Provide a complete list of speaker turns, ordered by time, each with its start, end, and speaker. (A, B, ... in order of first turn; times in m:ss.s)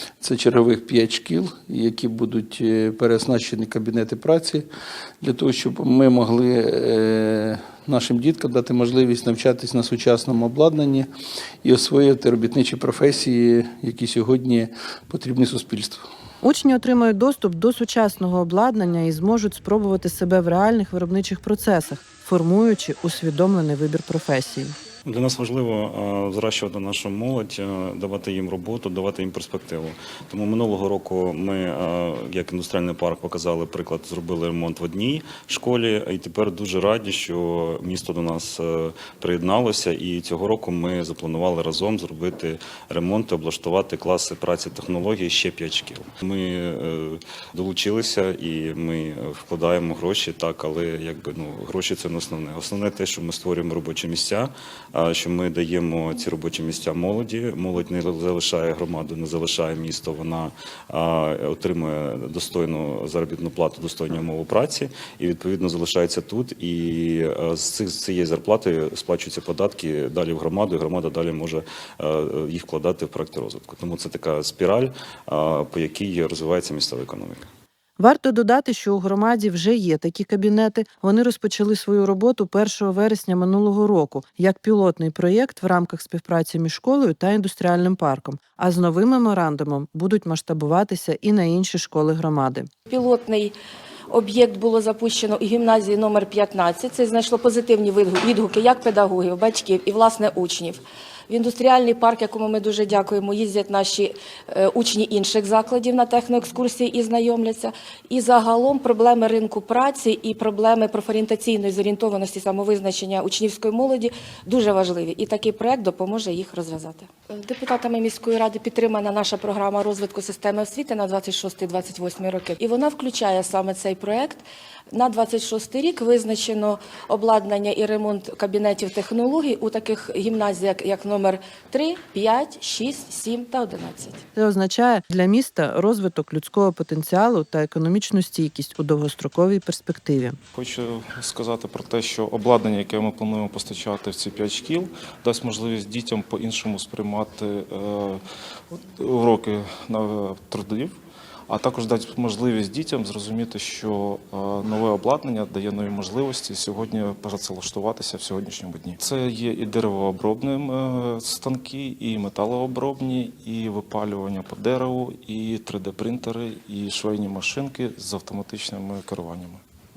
0:00.2-0:04.7 A
0:05.2-0:11.1 A
0:11.6-0:16.0 A
0:16.4-0:24.7 B
0:25.0-1:17.5 C
1:18.0-1:32.7 B
1:32.9-1:33.5 D
1:34.1-2:14.2 D
2:14.3-2:20.4 B
2:20.5-2:28.2 E
2:29.0-2:31.0 E
2:31.5-2:49.6 E